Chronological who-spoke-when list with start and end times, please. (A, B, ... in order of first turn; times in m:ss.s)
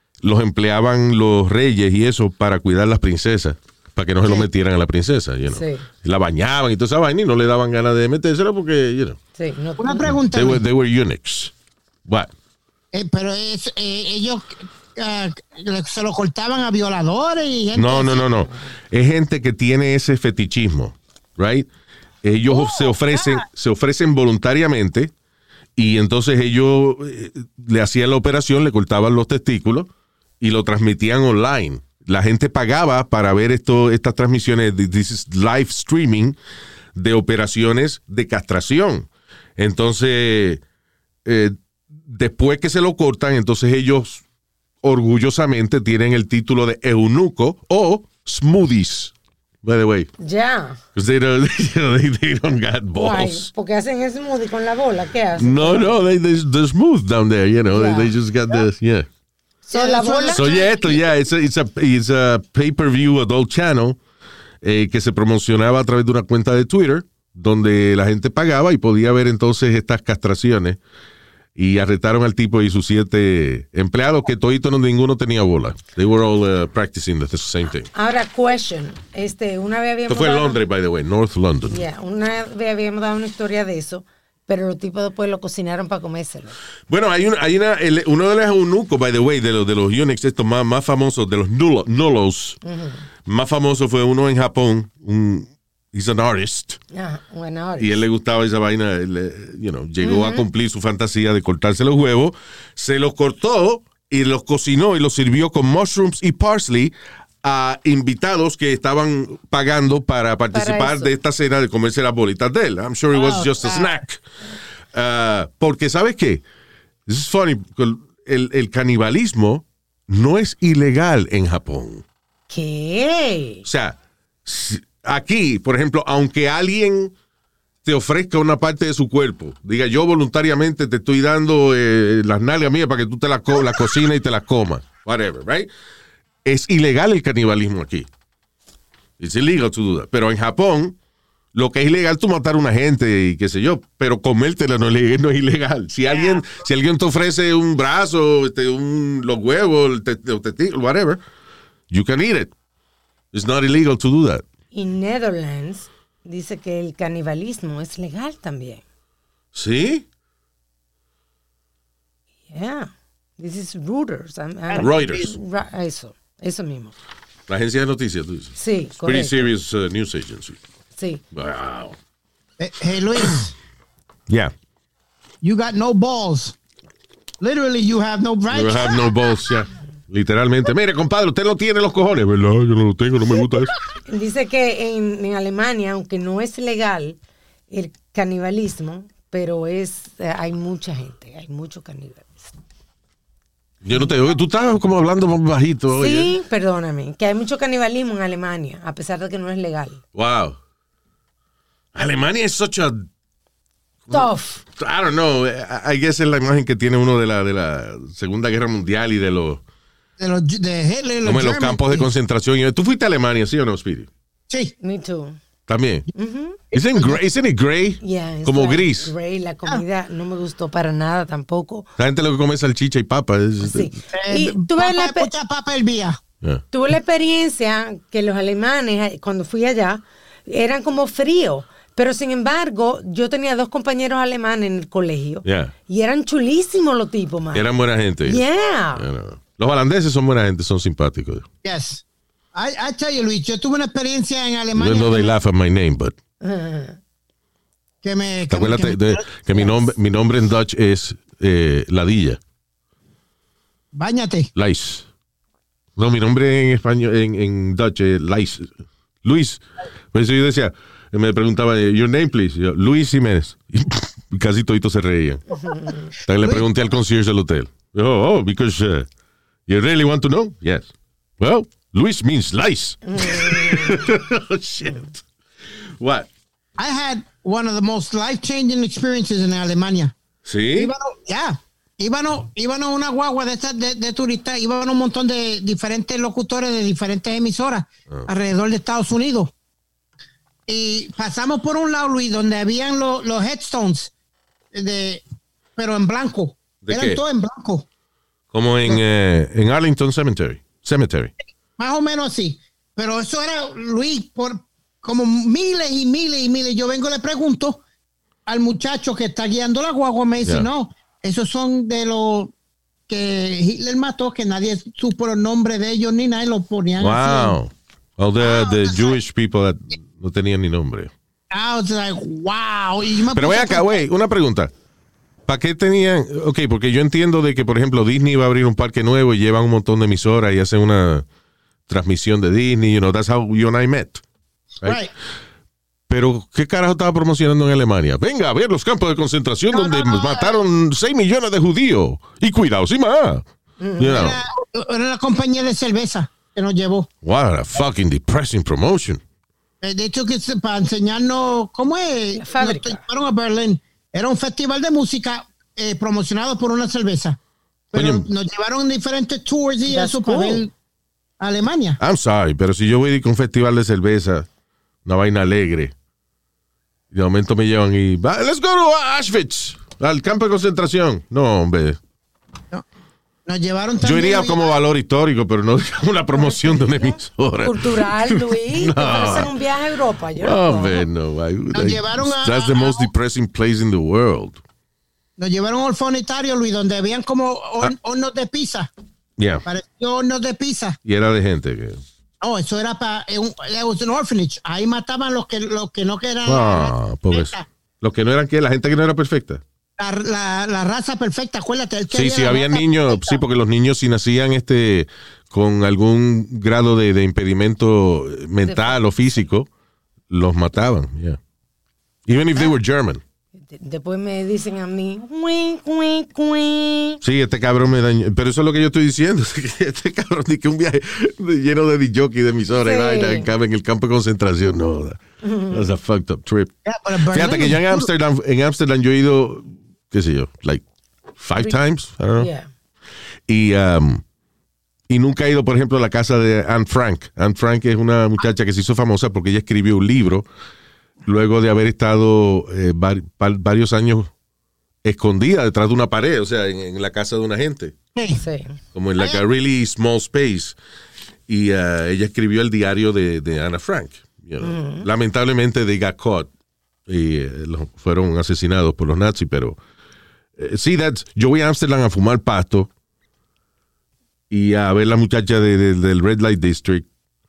0:00.2-0:09.2 A
0:05.5-0:05.9 B
0:09.4-0:10.1 B
0:09.8-0:10.6 C
0:10.1-0:11.5 A
0:12.9-0:18.3 C
0:17.7-0:21.7 A
0:22.2-0:25.1 A
0:22.5-0:23.4 C
0:25.8-0:29.9 A
0:30.4-0:36.4 A
0:36.9-0:40.6 A
0:41.2-0:41.5 A
0:42.1-0:44.2 A
0:44.8-0:49.1 A
0:49.6-0:50.1 A
0:50.2-0:50.8 B
0:50.9-0:53.5 A
0:52.9-0:56.0 B
0:55.4-0:59.1 A
0:57.7-0:58.1 B
0:59.7-1:00.4 B
0:59.7-1:01.0 C
1:00.3-1:04.0 A
1:04.6-1:10.8 A
1:11.6-1:17.9 A
1:17.9-1:20.6 B
1:20.1-1:21.8 A
1:21.7-1:26.6 B
1:26.9-1:32.6 A
1:32.6-1:33.0 B
1:33.2-1:36.8 A
1:36.9-1:38.0 B
1:37.8-1:54.2 A
1:40.0-1:40.4 B
1:50.5-1:51.1 B
1:53.2-1:54.0 C
1:54.9-1:56.4 A
1:57.1-2:02.0 A
2:02.5-2:03.6 B
2:03.6-2:07.1 A
2:07.8-2:15.7 A
2:16.4-2:18.1 A
2:19.2-2:21.0 A
2:21.5-2:31.2 A
2:31.9-2:32.5 A
2:33.3-2:34.4 A
2:34.7-2:38.8 B
2:39.5-2:40.0 A
2:42.5-2:46.9 B
2:44.7-2:45.3 C
2:44.8-2:45.3 A
2:47.5-2:50.6 A
2:48.6-2:49.5 B
2:51.0-2:51.2 B
2:51.3-2:51.9 A
2:52.6-2:53.5 C
2:55.4-2:56.6 C
2:57.4-2:59.1 C
2:58.5-3:03.7 A
3:04.1-3:07.2 B
3:07.7-3:12.4 B
3:13.8-3:16.3 A
3:15.9-3:20.0 B
3:20.1-3:20.6 A
3:21.9-3:23.1 A
3:24.1-3:29.6 A
3:24.1-3:24.6 B
3:30.2-3:32.1 C
3:31.2-3:34.1 A
3:34.5-3:34.7 C
3:34.8-3:35.4 B
3:35.7-3:36.1 A
3:36.1-3:36.6 B
3:36.7-3:37.2 C
3:36.7-3:39.1 A
3:38.0-3:41.9 B
3:42.0-3:43.9 A
3:43.6-3:45.3 B
3:44.1-3:46.2 C
3:46.7-3:57.7 B
3:55.4-3:55.7 A
3:57.5-3:58.4 A
3:58.2-3:59.0 B
3:58.9-4:01.4 A
4:01.6-4:02.0 C
4:02.5-4:05.3 C
4:04.7-4:06.1 A
4:06.4-4:07.0 B
4:08.0-4:09.2 C
4:08.5-4:12.4 A
4:13.9-4:14.5 C
4:14.6-4:15.0 A
4:16.0-4:18.7 A
4:19.2-4:19.6 A
4:20.1-4:25.4 A
4:25.6-4:26.1 B
4:26.2-4:29.1 A
4:29.7-4:35.2 A
4:33.1-4:34.1 B
4:36.0-4:36.3 A
4:36.8-4:40.1 C
4:40.4-4:40.9 A
4:40.7-4:49.5 C
4:50.7-4:54.1 C
4:54.7-4:55.2 C
4:55.8-4:57.9 C
4:56.8-4:57.2 A
4:58.5-5:01.3 A
5:01.8-5:07.8 C
5:08.4-5:12.5 C
5:13.1-5:17.6 C
5:17.0-5:21.1 A
5:18.4-5:19.2 C
5:21.5-5:24.0 C
5:23.3-5:24.7 A
5:25.5-5:31.2 A
5:31.9-5:34.2 A
5:34.8-5:35.1 C
5:36.1-5:43.4 A
5:39.7-5:40.6 C
5:43.8-5:44.3 B
5:44.0-5:44.4 A
5:44.0-5:47.1 C
5:47.2-5:49.2 A
5:49.8-5:57.4 C
5:52.3-5:53.0 B
5:57.9-6:00.7 C
5:57.9-5:58.3 A
5:59.9-6:00.6 B
6:01.4-6:02.0 C
6:02.0-6:04.5 A
6:05.0-6:05.9 A
6:07.1-6:12.0 A
6:13.4-6:14.8 C
6:14.0-6:19.5 A
6:16.3-6:21.0 B
6:20.4-6:24.6 A
6:21.7-6:23.1 C
6:25.4-6:28.9 C
6:29.4-6:29.6 A
6:29.6-6:31.0 C
6:31.0-6:32.0 A
6:32.4-6:37.6 C
6:36.4-6:39.6 A
6:40.0-6:43.4 C
6:42.1-6:49.7 A
6:48.6-6:49.0 B
6:50.3-6:51.4 A
6:52.3-6:53.2 A
6:53.7-6:57.2 B
6:57.2-7:05.2 A
7:02.7-7:03.5 B
7:05.4-7:05.9 B
7:05.7-7:06.7 A
7:06.8-7:08.1 C
7:07.3-7:10.8 A
7:11.4-7:12.5 A
7:12.4-7:12.7 B
7:13.5-7:14.2 A
7:15.1-7:20.4 A
7:21.2-7:24.3 A
7:25.0-7:27.9 A
7:28.1-7:28.4 C
7:28.4-7:28.8 B
7:28.9-7:30.7 A
7:31.5-7:36.5 A
7:34.6-7:35.1 B
7:37.1-7:39.8 A
7:40.6-7:42.9 A
7:44.5-7:47.0 A